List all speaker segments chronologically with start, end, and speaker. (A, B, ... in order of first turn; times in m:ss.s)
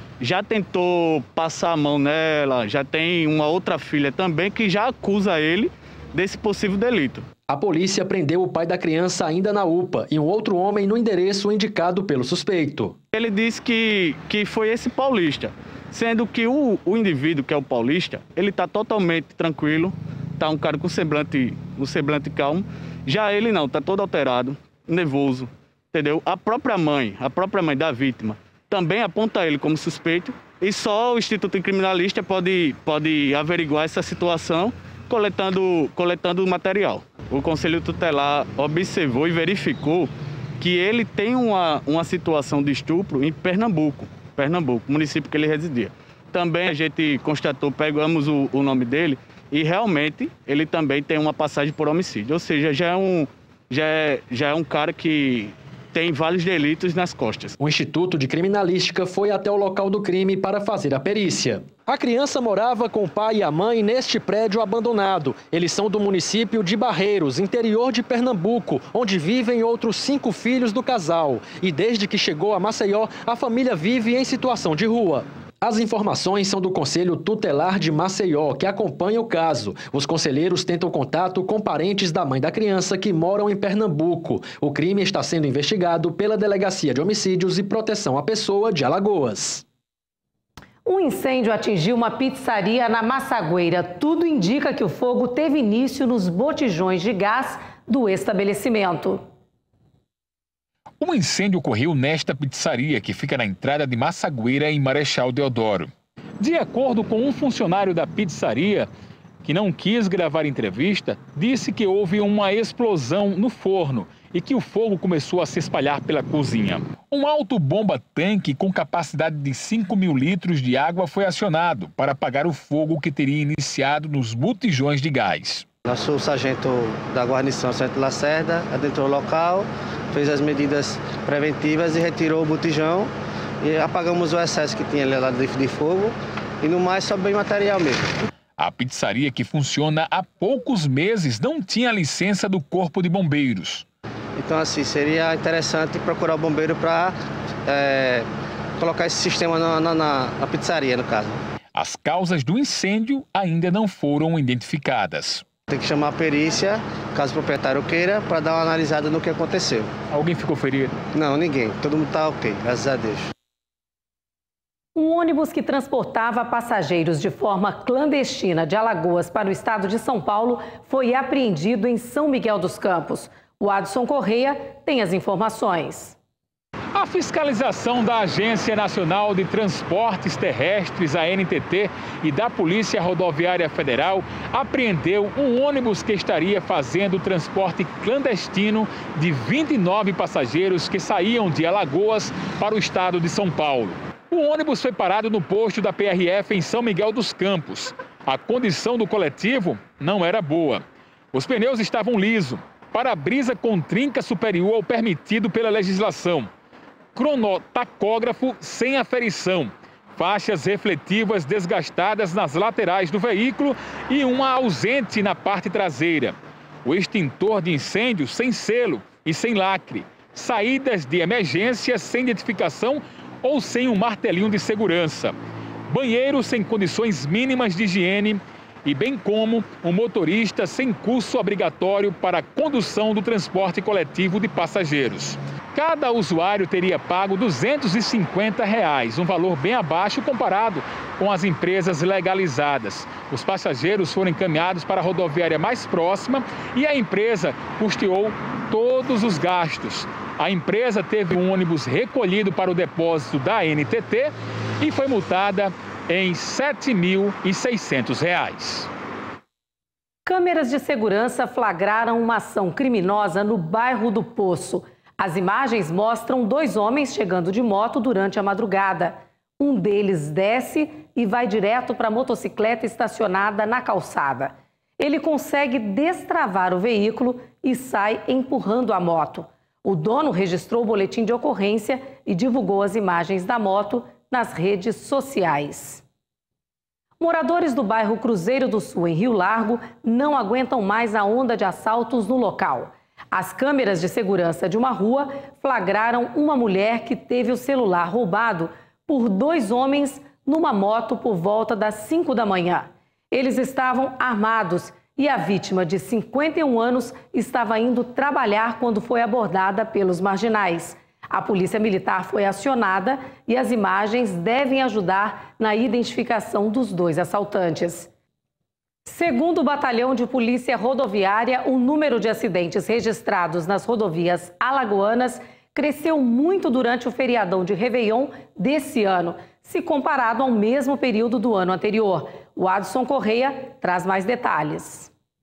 0:00.2-0:07.2 A
0:07.5-0:13.0 B
0:13.1-0:57.6 A
0:57.6-1:29.6 B
1:30.8-1:39.2 C
1:41.0-1:48.9 D
1:49.4-2:05.6 D
2:05.9-2:13.1 E
2:13.6-2:18.2 E
2:18.6-2:23.8 D
2:24.4-2:28.2 E
2:28.8-2:31.4 E
2:31.7-2:35.4 D
2:35.7-2:39.9 E
2:40.1-2:40.9 D
2:41.1-2:43.3 E
2:45.0-2:56.2 C
2:56.9-3:26.5 D
3:27.1-3:45.3 D
3:45.9-4:18.9 D
4:20.2-4:46.0 C
4:47.2-5:18.1 C
5:19.0-5:35.1 C